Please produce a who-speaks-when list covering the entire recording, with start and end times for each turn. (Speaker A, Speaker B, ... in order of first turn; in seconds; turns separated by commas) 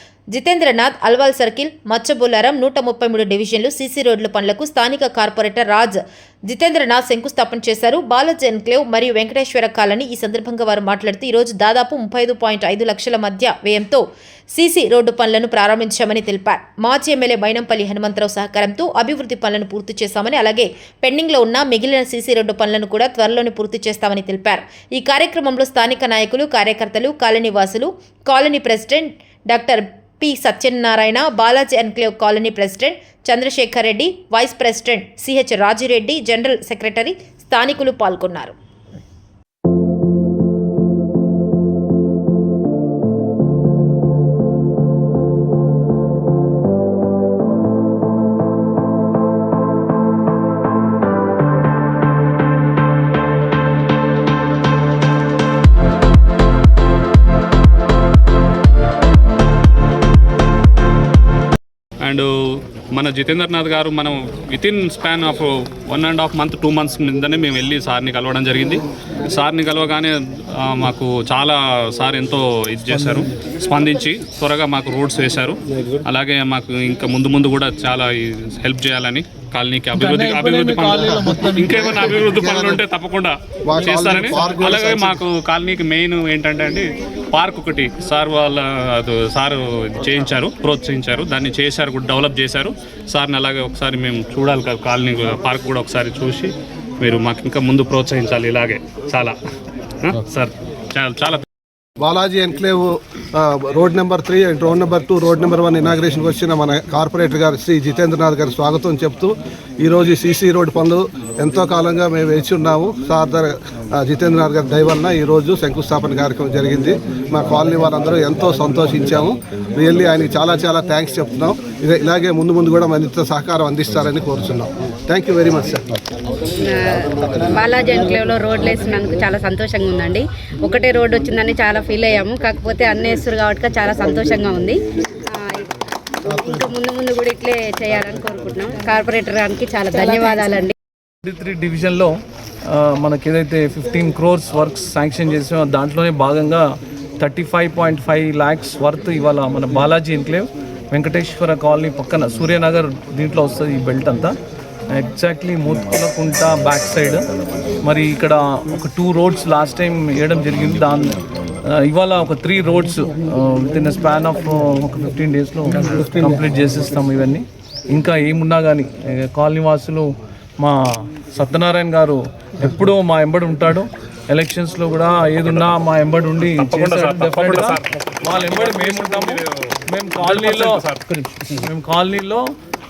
Speaker A: 0.3-38.5, Speaker B: 62.0-99.3, Speaker C: 80.0-81.8, Speaker D: 80.9-82.8, Speaker D: 83.7-85.2, Speaker B: 100.0-101.4, Speaker D: 102.0-125.8, Speaker E: 126.6-140.7, Speaker C: 141.2-154.4, Speaker C: 154.9-157.2, Speaker C: 157.8-182.5, Speaker B: 176.4-181.6